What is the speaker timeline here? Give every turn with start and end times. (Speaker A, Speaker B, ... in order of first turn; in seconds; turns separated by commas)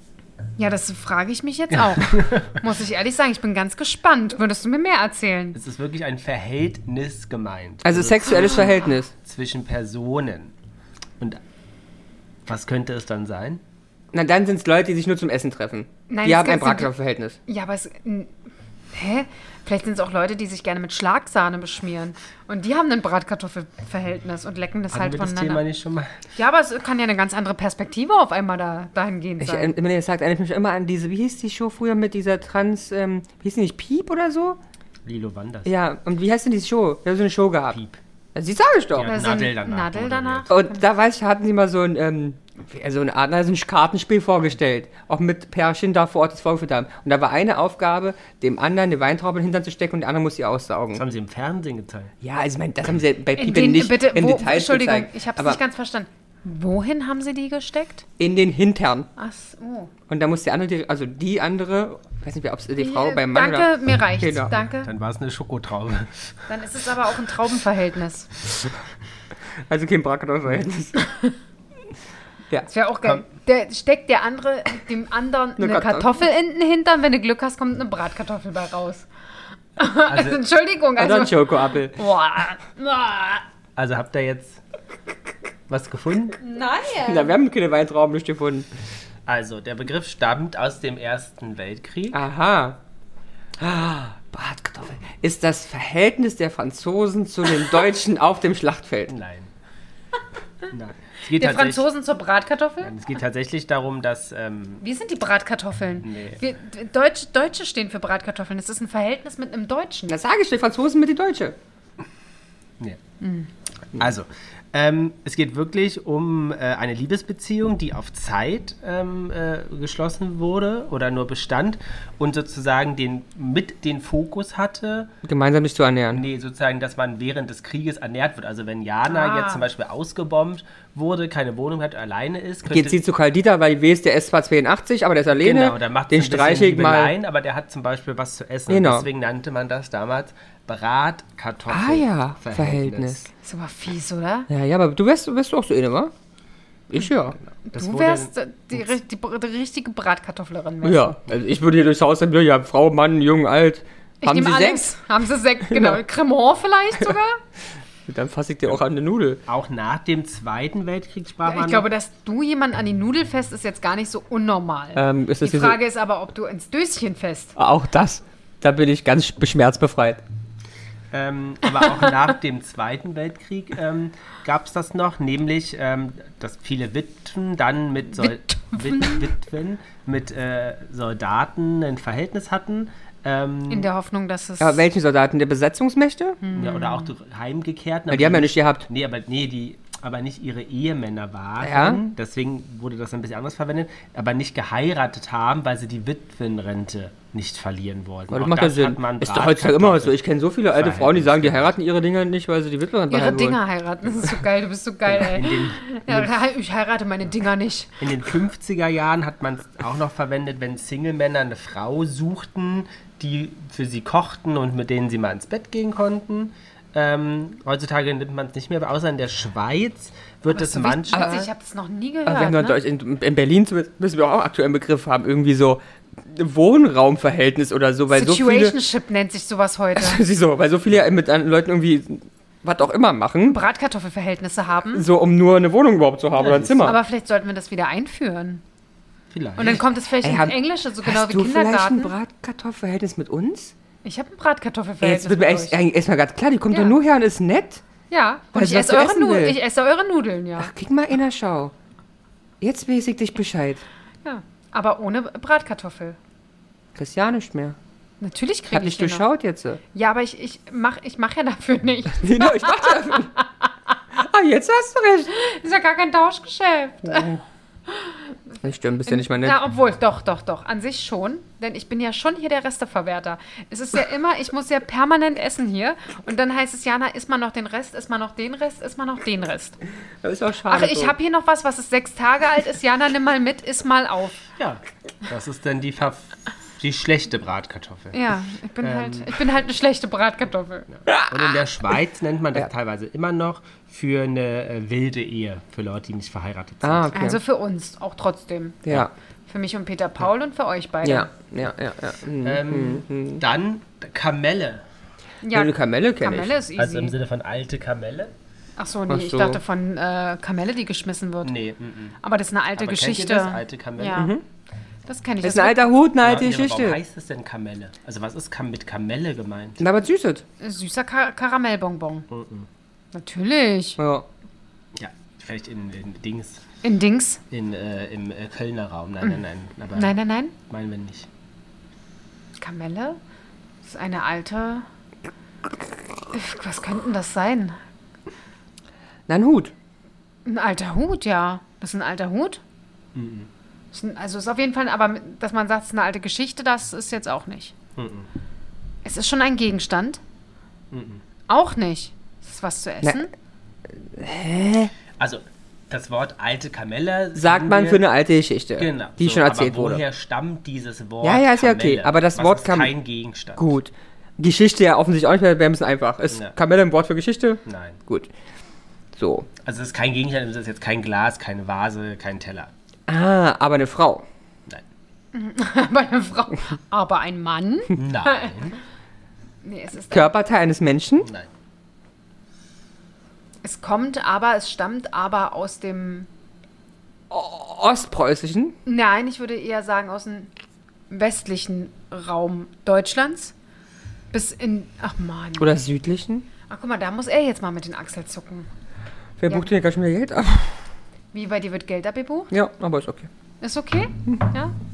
Speaker A: 0.6-5.6, Speaker B: 1.7-2.5, Speaker B: 5.5-10.5, Speaker C: 7.8-9.1, Speaker B: 12.4-13.6, Speaker C: 14.1-17.4, Speaker A: 16.1-16.9, Speaker A: 17.5-18.3, Speaker A: 18.9-25.6, Speaker B: 24.9-26.2, Speaker A: 26.3-29.7, Speaker C: 29.4-34.6, Speaker B: 35.0-35.7, Speaker C: 35.6-37.8, Speaker B: 37.7-38.0, Speaker C: 38.3-39.1, Speaker B: 38.9-40.5, Speaker A: 39.0-40.8, Speaker C: 40.5-51.0, Speaker B: 50.9-52.1, Speaker C: 52.2-55.6, Speaker A: 53.4-58.0, Speaker C: 58.2-59.1, Speaker A: 59.2-59.9, Speaker C: 60.1-64.5, Speaker A: 62.8-64.9, Speaker B: 64.8-66.5, Speaker A: 66.5-68.3, Speaker C: 69.7-70.9, Speaker A: 71.0-71.3, Speaker A: 72.7-79.1, Speaker C: 75.6-76.1, Speaker A: 79.8-83.4, Speaker B: 80.0-80.4, Speaker C: 81.0-82.0, Speaker B: 83.8-84.6, Speaker B: 85.7-86.4, Speaker A: 86.4-87.4, Speaker C: 87.0-88.7, Speaker B: 89.2-92.2, Speaker C: 92.1-92.8, Speaker C: 93.6-99.1, Speaker B: 99.1-99.5, Speaker B: 100.7-101.8, Speaker A: 101.3-103.0, Speaker B: 102.8-104.8, Speaker A: 104.8-110.1, Speaker B: 106.0-106.4, Speaker C: 110.1-111.5, Speaker A: 113.2-113.5, Speaker B: 113.9-125.1, Speaker C: 125.2-126.2, Speaker B: 126.1-133.0, Speaker A: 129.1-129.7, Speaker C: 132.7-137.1, Speaker B: 135.4-143.3, Speaker C: 138.7-139.1, Speaker C: 141.7-143.2, Speaker A: 143.4-144.5, Speaker C: 144.5-146.1, Speaker C: 146.9-147.3, Speaker B: 147.7-148.8, Speaker A: 147.7-151.2, Speaker C: 150.8-154.9, Speaker A: 154.2-157.4, Speaker C: 155.7-156.0, Speaker C: 158.1-159.4, Speaker B: 159.5-161.9, Speaker A: 161.4-167.5, Speaker C: 164.9-165.8, Speaker C: 167.6-170.2, Speaker B: 171.1-183.9, Speaker A: 178.2-179.3, Speaker A: 183.7-184.8, Speaker C: 184.6-186.4, Speaker A: 186.4-187.1, Speaker B: 186.5-201.7, Speaker C: 188.1-188.9, Speaker C: 191.6-192.0, Speaker C: 198.3-203.6, Speaker A: 203.1-208.1, Speaker B: 205.1-206.3, Speaker B: 208.0-221.4, Speaker A: 220.5-222.8, Speaker C: 221.1-221.5, Speaker C: 222.2-228.7, Speaker A: 228.1-230.2, Speaker C: 230.0-233.6, Speaker A: 233.4-235.1, Speaker C: 234.9-237.0, Speaker B: 236.3-237.0, Speaker A: 236.8-238.6, Speaker B: 239.3-239.8, Speaker A: 239.6-242.1, Speaker C: 240.2-243.7, Speaker A: 244.0-245.8, Speaker C: 245.0-247.8, Speaker A: 246.7-247.0, Speaker A: 248.1-250.7, Speaker C: 248.5-249.6, Speaker C: 250.6-251.7, Speaker C: 252.6-253.8, Speaker A: 254.2-256.2, Speaker C: 256.9-257.8, Speaker A: 258.2-259.3, Speaker C: 258.7-259.8, Speaker A: 259.9-263.7, Speaker C: 262.2-263.3, Speaker C: 264.2-265.3, Speaker A: 265.3-267.3, Speaker C: 267.0-267.4, Speaker A: 267.9-268.5, Speaker C: 268.6-269.6, Speaker A: 269.1-279.8, Speaker C: 280.2-281.1, Speaker A: 280.7-284.4, Speaker B: 284.6-288.2, Speaker A: 288.1-290.9, Speaker B: 288.8-289.4, Speaker B: 290.9-297.1, Speaker C: 296.8-297.4, Speaker A: 297.1-298.9, Speaker C: 298.9-299.1, Speaker A: 299.5-301.3, Speaker C: 301.0-303.4, Speaker B: 302.4-304.8, Speaker A: 305.4-307.1, Speaker C: 305.5-306.5, Speaker B: 306.8-308.3, Speaker A: 308.8-311.6, Speaker C: 309.1-309.6, Speaker B: 311.4-312.1, Speaker A: 312.2-314.3, Speaker B: 312.8-314.3, Speaker C: 314.1-314.4, Speaker A: 315.1-315.8, Speaker C: 315.4-317.0, Speaker B: 316.2-319.8, Speaker C: 319.8-320.4, Speaker A: 320.6-322.3, Speaker B: 322.3-322.7, Speaker A: 323.1-324.0, Speaker C: 324.0-324.2, Speaker B: 324.9-326.6, Speaker A: 326.8-327.4, Speaker B: 327.5-330.1, Speaker A: 329.9-330.5, Speaker B: 330.7-331.3, Speaker A: 332.6-333.2, Speaker A: 333.8-334.9, Speaker A: 336.3-337.8, Speaker C: 339.3-339.7, Speaker A: 340.4-342.6, Speaker B: 343.1-343.5, Speaker A: 343.9-347.7, Speaker B: 347.9-348.3, Speaker A: 349.0-350.2, Speaker B: 350.9-351.2, Speaker A: 351.5-353.3, Speaker C: 354.0-354.9, Speaker B: 355.2-358.0, Speaker C: 357.4-360.0, Speaker B: 358.8-363.7, Speaker C: 361.2-362.9, Speaker C: 363.6-368.3, Speaker B: 367.6-368.0, Speaker C: 369.1-369.5, Speaker B: 369.6-372.7, Speaker C: 373.1-374.2, Speaker A: 375.3-378.8, Speaker B: 377.9-378.8, Speaker A: 379.6-380.3, Speaker C: 380.1-381.3, Speaker B: 381.2-381.5, Speaker A: 383.6-386.3, Speaker C: 387.3-388.7, Speaker A: 388.9-390.5, Speaker A: 391.1-393.5, Speaker A: 394.3-395.7, Speaker C: 395.6-396.4, Speaker A: 396.7-398.7, Speaker C: 399.4-400.8, Speaker A: 401.3-402.5, Speaker C: 402.5-403.3, Speaker A: 403.6-404.7